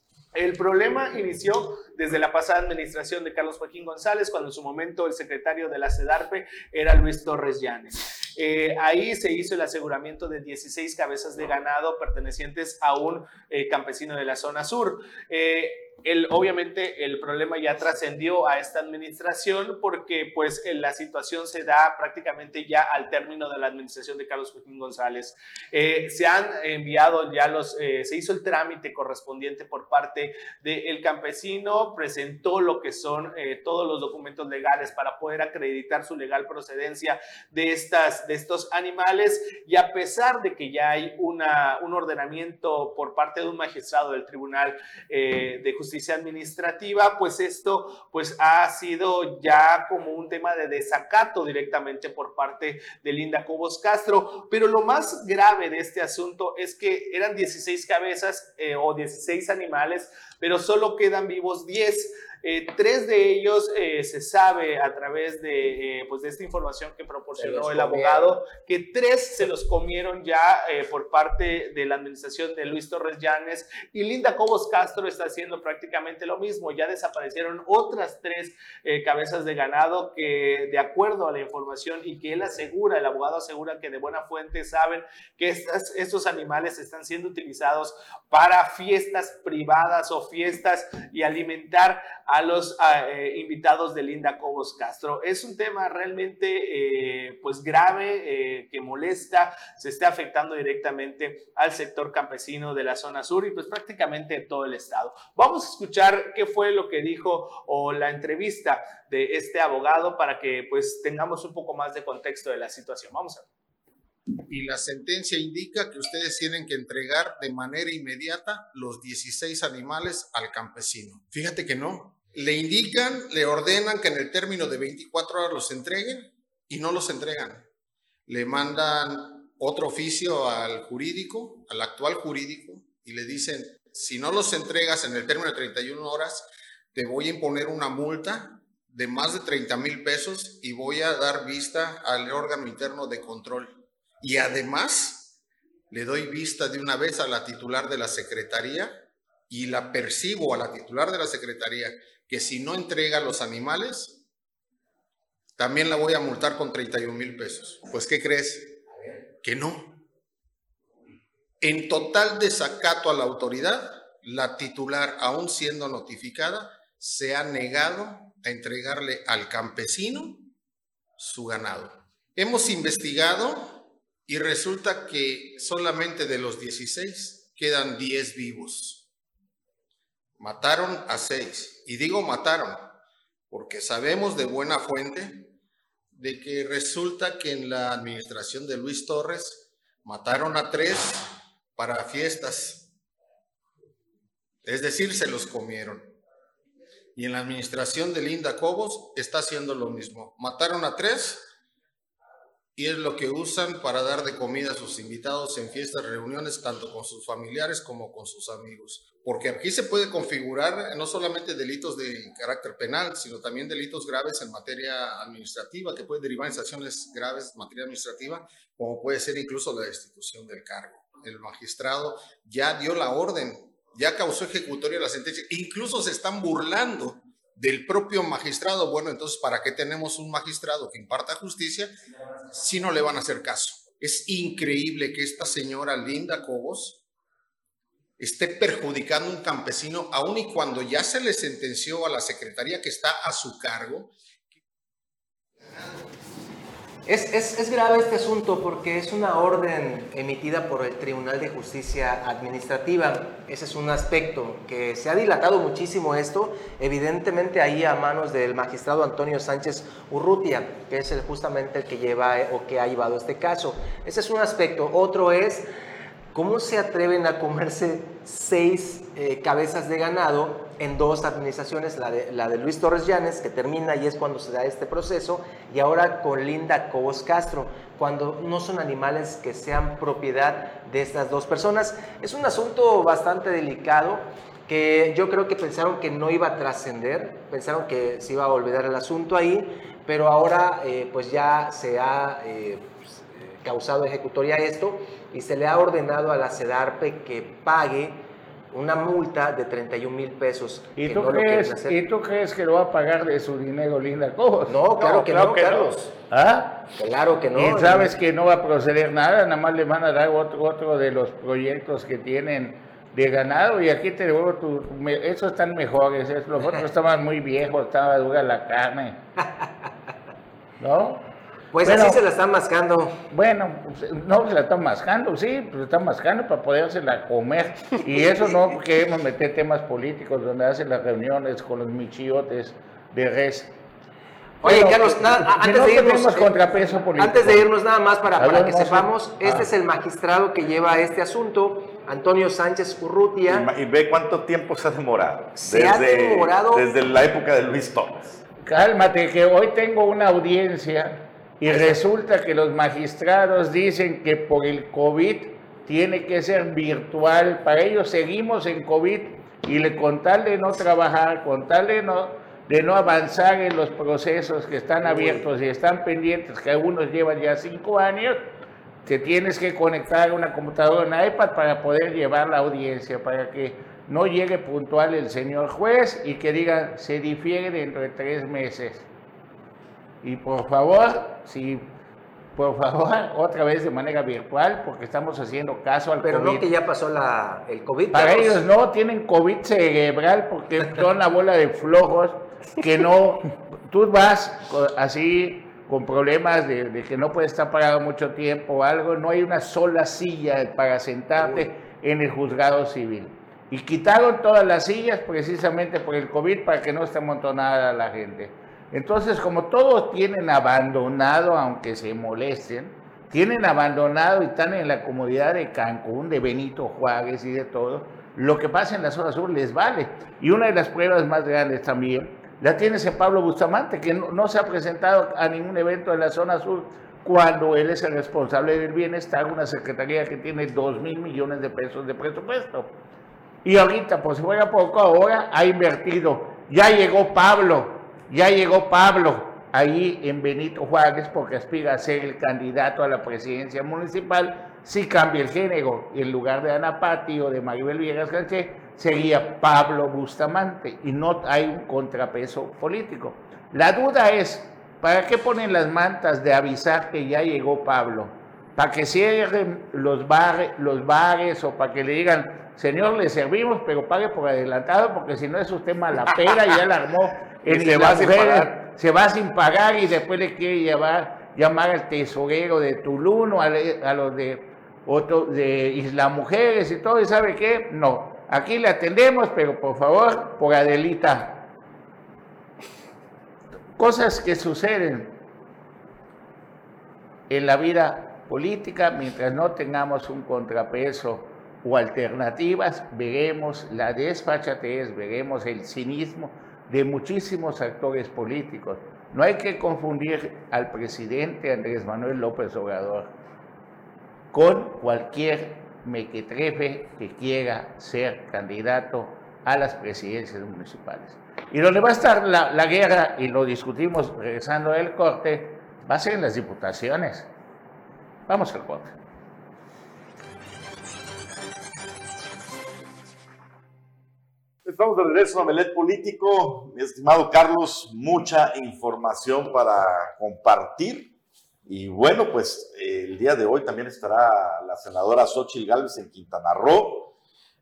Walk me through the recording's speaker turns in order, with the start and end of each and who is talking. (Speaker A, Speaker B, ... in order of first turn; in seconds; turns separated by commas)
Speaker A: 0.3-113.5, Speaker B: 67.4-68.3, Speaker C: 114.5-127.7, Speaker C: 128.3-145.4, Speaker C: 145.9-149.0, Speaker C: 149.5-154.2, Speaker C: 155.6-158.8, Speaker C: 159.4-160.0, Speaker C: 161.6-170.5, Speaker C: 171.2-179.1, Speaker C: 180.4-183.0, Speaker C: 183.5-185.5, Speaker C: 186.1-192.9, Speaker C: 194.7-196.2, Speaker C: 197.2-201.5, Speaker C: 202.8-232.0, Speaker C: 232.5-237.0, Speaker C: 238.2-244.1, Speaker B: 247.1-265.7, Speaker B: 266.3-302.0, Speaker D: 301.0-304.8, Speaker B: 304.7-306.0, Speaker A: 304.9-306.1, Speaker D: 306.3-306.9, Speaker B: 307.0-308.2, Speaker D: 307.5-319.2, Speaker B: 319.6-319.9, Speaker D: 320.8-321.3, Speaker B: 321.7-323.2, Speaker D: 321.8-322.2, Speaker D: 323.3-333.8, Speaker B: 334.6-336.6, Speaker D: 334.6-337.7, Speaker B: 337.2-343.7, Speaker D: 338.4-339.7, Speaker E: 343.5-348.4, Speaker B: 345.6-346.9, Speaker D: 348.6-368.5, Speaker B: 351.7-352.0, Speaker B: 365.1-365.4, Speaker D: 369.1-379.1, Speaker D: 380.2-381.9, Speaker D: 382.6-386.7, Speaker B: 386.2-388.6, Speaker D: 388.1-432.9, Speaker B: 401.4-401.7, Speaker D: 433.6-481.7, Speaker E: 467.7-468.3, Speaker D: 484.0-485.4, Speaker D: 487.5-503.3, Speaker D: 504.5-517.5, Speaker D: 518.5-519.1, Speaker E: 524.9-531.3, Speaker E: 531.9-537.3